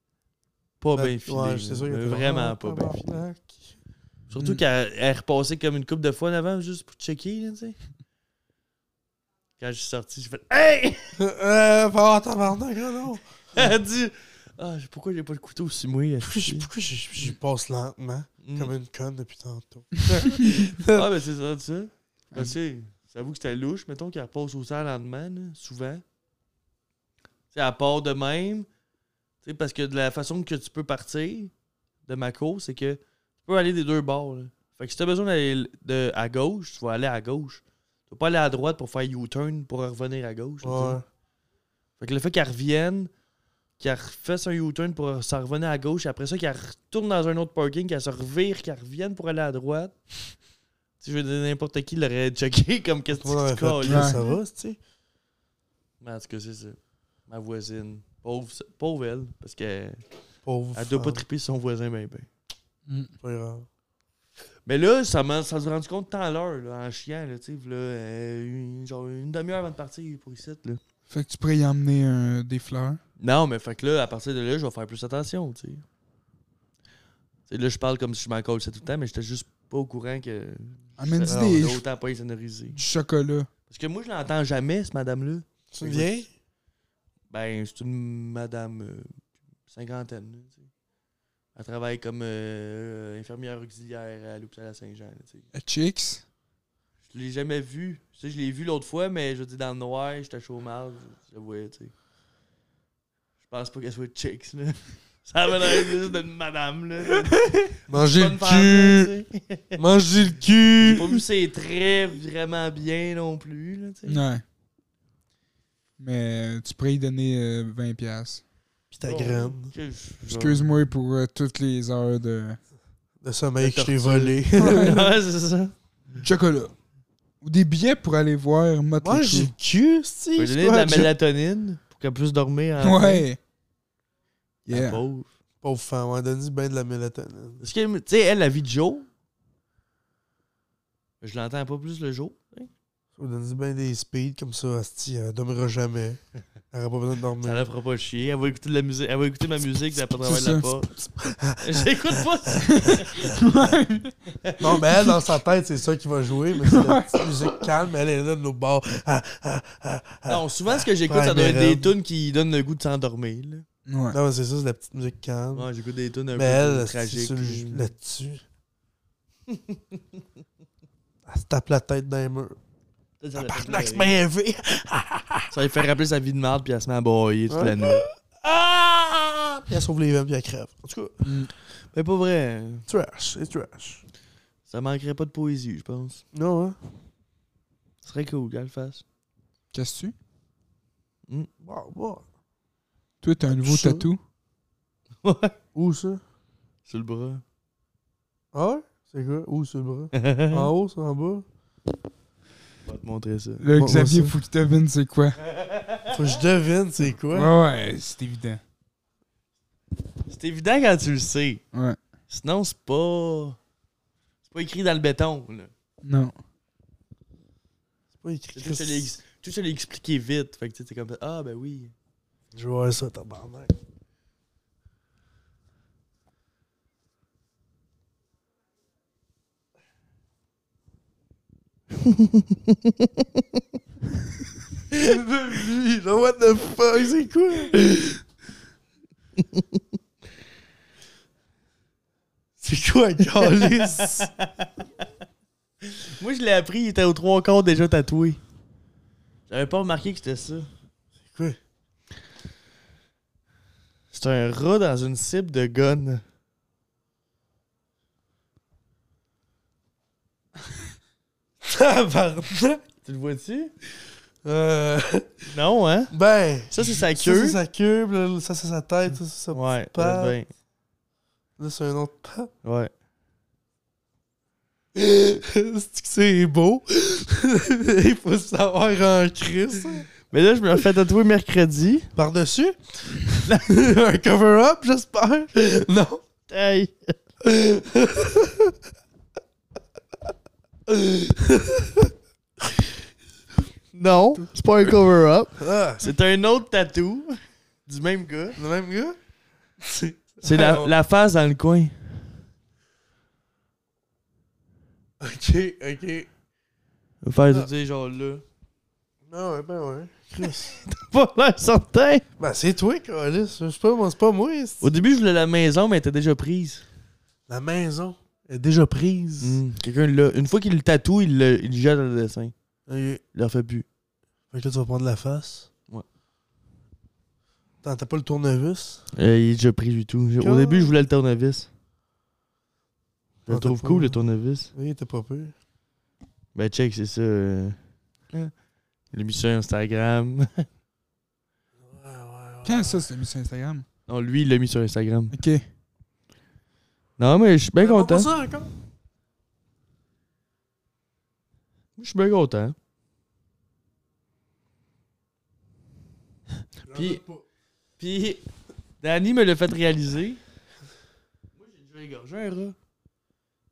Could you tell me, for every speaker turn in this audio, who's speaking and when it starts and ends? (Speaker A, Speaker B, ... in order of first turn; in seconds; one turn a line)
Speaker A: 0.8-3.2
Speaker B: 0.9-3.8
Speaker A: 4.3-7.8
Speaker A: 9.6-11.2
Speaker B: 11.2-13.7
Speaker A: 13.6-16.7
Speaker B: 16.2-21.1
Speaker A: 18.4-18.7
Speaker A: 20.9-26.0
Speaker A: 27.5-28.7
Speaker A: 29.4-31.5
Speaker A: 32.1-41.0
Speaker B: 40.6-41.0
Speaker A: 42.0-43.1
Speaker A: 43.8-50.0
Speaker A: 51.0-54.4
Speaker B: 53.1-54.8
Speaker C: 53.9-54.2
Speaker A: 56.0-60.0
Speaker B: 60.4-61.2
Speaker A: 60.8-62.3
Speaker C: 62.9-63.1
Speaker B: 63.2-63.7
Speaker A: 64.7-70.8
Speaker C: 71.1-73.0
Speaker A: 73.2-75.8
Speaker A: 77.5-82.8
Speaker C: 81.0-81.8
Speaker B: 81.3-81.8
Speaker C: 82.7-83.5
Speaker A: 83.7-86.2
Speaker B: 85.7-86.3
Speaker A: 87.3-89.1
Speaker A: 89.7-90.7
Speaker A: 91.5-95.5
Speaker C: 95.5-96.2
Speaker A: 97.1-101.9
Speaker A: 103.4-107.4
Speaker B: 107.9-109.1
Speaker A: 107.9-109.8
Speaker B: 109.8-111.2
Speaker A: 110.8-114.2
Speaker C: 114.1-114.4
Speaker C: 116.0-118.4
Speaker B: 118.9-119.7
Speaker A: 119.0-120.7
Speaker C: 120.3-122.6
Speaker B: 123.2-125.1
Speaker A: 123.6-125.7
Speaker C: 124.6-125.0
Speaker C: 126.2-126.7
Speaker C: 127.4-129.5
Speaker B: 129.0-131.1
Speaker A: 130.4-133.2
Speaker C: 132.8-133.4
Speaker C: 134.7-135.0
Speaker A: 134.7-135.3
Speaker B: 135.6-137.6
Speaker A: 137.6-139.1
Speaker A: 141.2-142.7
Speaker B: 143.2-146.2
Speaker B: 146.7-147.7
Speaker A: 147.4-150.9
Speaker C: 150.2-150.7
Speaker B: 151.0-153.4
Speaker A: 151.6-153.3
Speaker C: 152.7-155.2
Speaker B: 154.6-161.9
Speaker C: 156.6-157.7
Speaker A: 160.3-163.7
Speaker C: 163.9-164.2
Speaker B: 164.1-165.7
Speaker A: 165.5-167.9
Speaker B: 166.3-168.4
Speaker A: 169.5-170.0
Speaker B: 171.3-172.6
Speaker A: 173.2-174.1
Speaker B: 173.4-175.5
Speaker A: 175.5-178.0
Speaker B: 177.5-181.2
Speaker C: 181.2-181.5
Speaker A: 181.9-182.9
Speaker B: 182.9-184.0
Speaker A: 184.7-186.2
Speaker B: 186.3-186.8
Speaker A: 188.0-189.0
Speaker C: 189.7-190.2
Speaker B: 191.6-192.2
Speaker C: 193.2-194.2
Speaker B: 193.4-194.1
Speaker A: 195.2-195.6
Speaker B: 195.8-196.2
Speaker A: 196.9-197.4
Speaker B: 198.5-201.5
Speaker A: 200.1-200.7
Speaker A: 202.9-203.7
Speaker C: 203.6-205.4
Speaker B: 203.8-204.3
Speaker A: 205.5-206.2
Speaker B: 206.1-207.5
Speaker C: 207.3-208.6
Speaker A: 210.3-211.6
Speaker C: 211.7-212.0
Speaker A: 212.3-213.6
Speaker A: 214.5-215.7
Speaker C: 216.0-216.3
Speaker B: 218.2-219.1
Speaker A: 218.5-221.9
Speaker B: 222.5-223.7
Speaker A: 232.0-233.4
Speaker B: 234.9-238.2
Speaker B: 242.6-244.3
Speaker A: 243.4-245.1
Speaker A: 245.8-248.4
Speaker A: 249.5-250.7
Speaker B: 251.3-251.6
Speaker A: 254.1-256.2
Speaker B: 261.6-262.8
Speaker A: 263.1-263.7
Speaker B: 264.4-265.5
Speaker A: 265.5-266.1
Speaker B: 266.1-270.4
Speaker A: 266.7-267.6
Speaker A: 269.5-270.5
Speaker B: 271.6-272.5
Speaker A: 272.6-272.9
Speaker B: 274.9-280.1
Speaker A: 280.3-282.1
Speaker B: 282.2-286.2
Speaker A: 286.5-287.1
Speaker B: 287.4-288.8
Speaker B: 290.9-292.1
Speaker A: 293.9-298.6
Speaker B: 295.6-296.1
Speaker B: 298.6-299.2
Speaker B: 299.8-300.9
Speaker A: 300.4-302.2
Speaker B: 305.2-306.3
Speaker A: 307.2-308.4
Speaker B: 309.3-310.8
Speaker A: 310.4-312.2
Speaker B: 312.4-314.9
Speaker A: 314.8-316.9
Speaker B: 317.5-319.6
Speaker A: 319.4-322.5
Speaker B: 322.9-323.2
Speaker A: 323.3-323.9
Speaker B: 324.5-325.7
Speaker B: 327.8-329.0
Speaker A: 329.1-331.7
Speaker B: 330.4-330.9
Speaker B: 333.5-334.2
Speaker A: 333.5-334.7
Speaker B: 334.7-335.5
Speaker A: 336.6-337.8
Speaker A: 339.1-340.7
Speaker B: 341.8-343.0
Speaker C: 342.6-343.9
Speaker A: 344.1-345.3
Speaker C: 345.3-345.6
Speaker A: 347.2-348.3
Speaker B: 347.8-348.7
Speaker A: 352.0-352.8
Speaker B: 356.9-357.4
Speaker A: 356.9-357.2
Speaker A: 358.0-358.4
Speaker A: 359.0-360.4
Speaker A: 361.6-362.8